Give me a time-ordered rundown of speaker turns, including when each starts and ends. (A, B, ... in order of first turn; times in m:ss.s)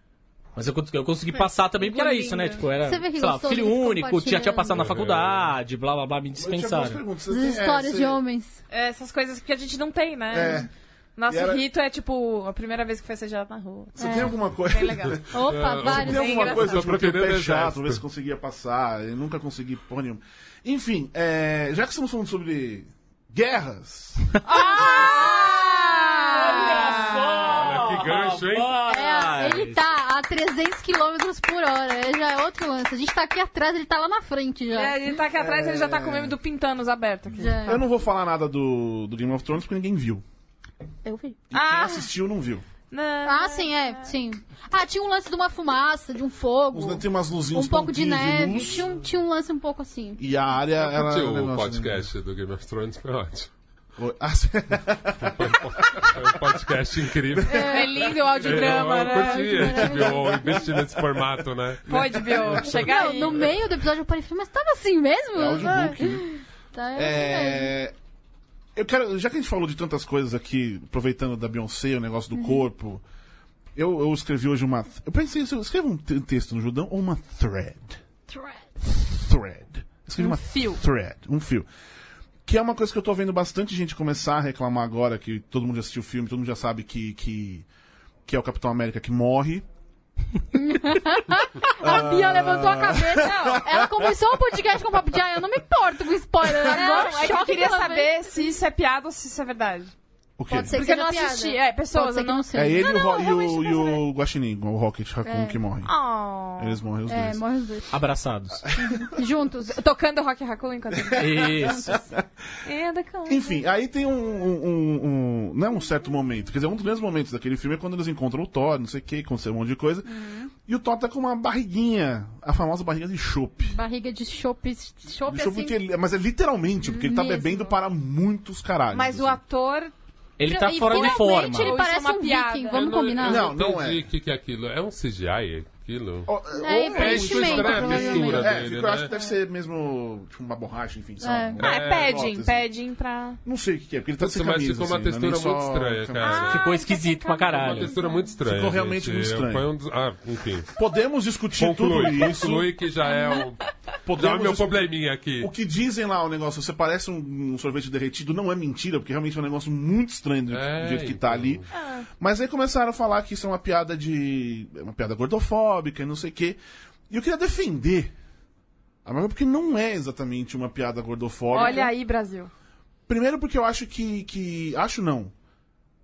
0:00.6-0:07.0 A
0:01.3-0:02.6 B
0:02.8-0:04.9 C
0:04.7-0:05.6 D
0:06.4-0:08.2 E
0:07.3-0:08.6 C
0:08.7-0:15.3 B
0:10.3-0:10.7 E
0:11.3-0:11.6 E
0:14.0-0:24.4 E
0:14.0-0:14.3 C
0:15.3-0:16.6 C
0:15.4-0:18.0 D
0:15.9-0:16.8 B
0:24.4-0:27.5 B
0:24.6-0:26.9 C
0:26.3-0:29.8 A
0:27.4-0:28.8 D
0:28.8-0:35.0 C
0:34.7-0:37.8 B
0:35.3-0:36.3 E
0:37.4-0:37.8 C
0:37.6-0:40.2 E
0:41.0-0:41.4 C
0:41.5-0:42.6 E
0:41.5-0:42.1 B
0:42.9-0:44.1 B
0:43.2-0:50.2 C
0:46.7-0:48.9 E
0:50.2-0:52.0 E
0:50.8-0:53.5 D
0:54.0-0:56.6 E
0:55.2-1:02.3 D
0:57.5-1:00.4 C
0:57.5-0:59.6 B
0:59.6-1:01.2 E
1:01.9-1:02.8 E
1:01.9-1:03.5 B
1:02.6-1:07.7 C
1:05.3-1:06.3 E
1:06.9-1:07.9 E
1:08.8-1:13.0 E
1:12.4-1:12.6 C
1:13.8-1:18.0 E
1:18.3-1:18.7 C
1:19.0-1:21.6 E
1:20.2-1:20.8 B
1:22.4-1:27.7 E
1:28.2-1:29.6 E
1:30.5-1:38.5 C
1:31.6-1:34.2 E
1:32.8-1:33.6 B
1:36.6-1:39.9 B
1:40.4-1:40.8 E
1:40.5-1:43.3 C
1:40.7-1:44.0 B
1:42.5-1:45.9 E
1:45.2-1:45.6 C
1:45.8-1:46.8 B
1:46.6-1:47.4 E
1:47.1-1:48.0 C
1:47.9-1:48.6 A
1:48.6-1:49.1 E
1:49.0-1:49.8 C
1:49.7-1:51.7 B
1:50.9-1:52.2 E
1:51.1-1:51.9 A
1:51.6-1:52.0 C
1:52.6-1:53.6 B
1:53.3-2:03.8 E
2:00.1-2:00.5 C
2:03.6-2:05.8 C
2:05.3-2:09.4 E
2:06.8-2:07.7 C
2:08.9-2:09.9 B
2:10.4-2:11.8 A
2:10.4-2:13.4 C
2:10.8-2:13.0 B
2:12.7-2:16.3 D
2:13.2-2:14.0 E
2:16.3-2:22.6 E
2:16.6-2:18.6 C
2:16.9-2:19.1 D
2:21.2-2:21.6 C
2:21.6-2:23.4 B
2:21.6-2:22.1 D
2:23.4-2:26.5 E
2:24.2-2:26.7 D
2:26.2-2:28.2 B
2:26.4-2:27.9 A
2:26.7-2:27.4 C
2:27.5-2:30.7 D
2:28.4-2:29.7 E
2:30.7-2:32.7 E
2:31.6-2:35.5 D
2:33.0-2:33.4 B
2:34.0-2:41.6 E
2:40.5-2:41.7 D
2:41.7-2:42.0 B
2:42.2-2:46.6 E
2:47.1-2:48.1 E
2:49.0-2:51.9 E
2:51.5-2:52.5 B
2:53.1-2:55.3 E